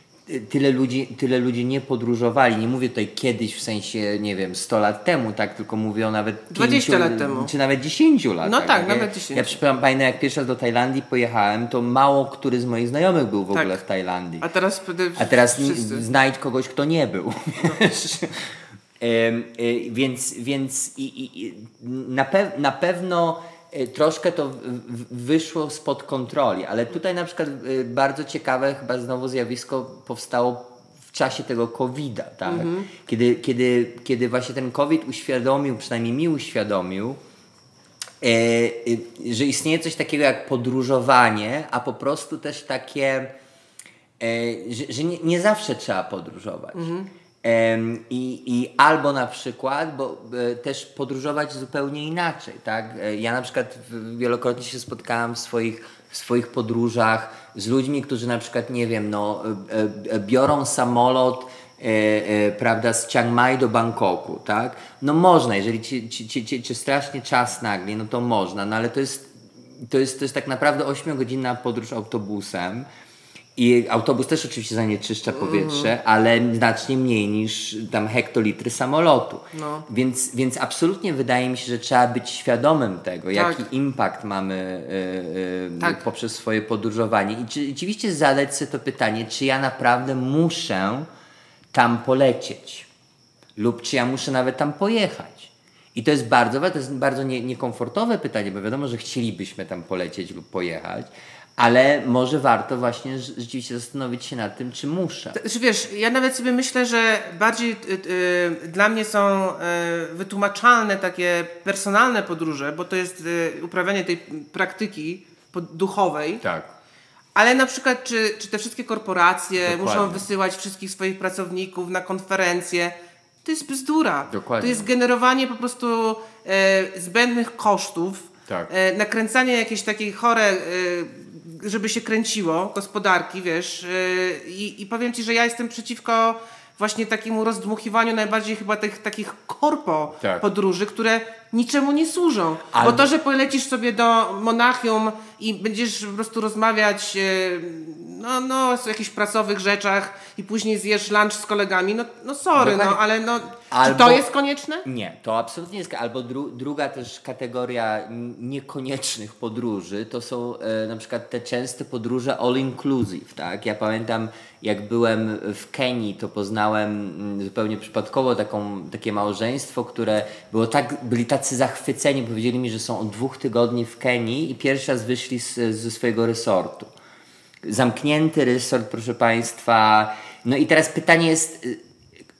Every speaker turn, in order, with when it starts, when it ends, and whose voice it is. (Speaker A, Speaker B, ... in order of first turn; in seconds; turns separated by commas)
Speaker A: 0.3-14.5, Speaker B: 6.5-7.5, Speaker B: 8.4-9.5, Speaker B: 13.5-13.8, Speaker B: 14.4-16.1, Speaker A: 15.2-37.2, Speaker B: 32.5-32.9, Speaker A: 38.2-43.3, Speaker A: 44.2-46.9, Speaker B: 46.7-47.1, Speaker A: 47.4-72.9, Speaker A: 73.5-91.1, Speaker B: 75.3-75.9, Speaker B: 79.5-79.9, Speaker B: 83.3-83.6, Speaker A: 91.7-92.9, Speaker A: 93.6-105.4, Speaker B: 105.3-116.4, Speaker A: 116.4-116.7, Speaker B: 117.3-154.8, Speaker A: 119.6-120.2, Speaker A: 124.2-124.9, Speaker A: 140.2-140.4, Speaker A: 142.7-143.1, Speaker A: 152.6-153.0, Speaker A: 153.7-154.3, Speaker A: 154.8-176.9, Speaker A: 177.6-181.8